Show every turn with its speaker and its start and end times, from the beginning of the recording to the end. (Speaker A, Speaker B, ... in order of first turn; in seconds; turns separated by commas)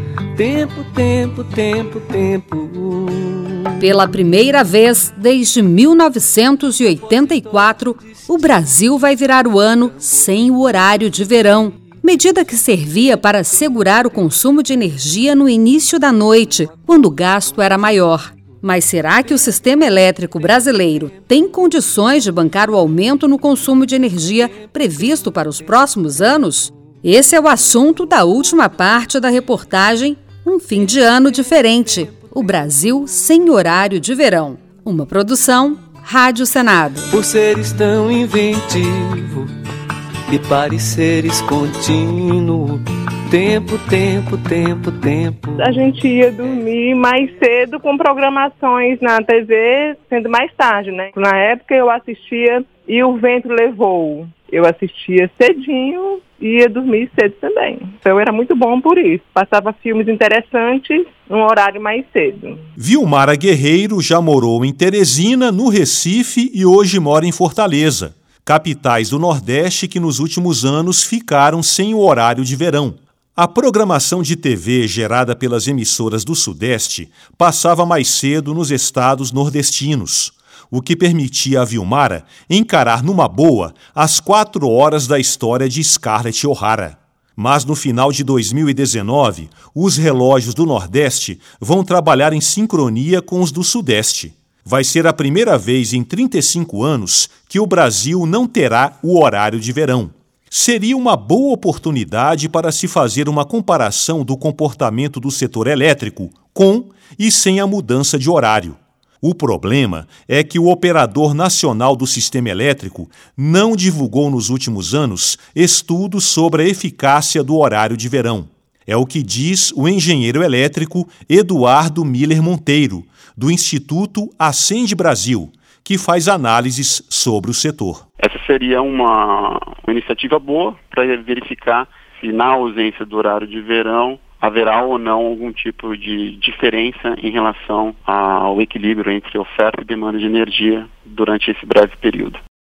Speaker A: 0.3-3.8, Speaker B: 3.8-37.1, Speaker A: 37.1-39.5, Speaker A: 40.3-45.8, Speaker C: 45.6-62.6, Speaker D: 62.8-128.0, Speaker E: 128.2-142.4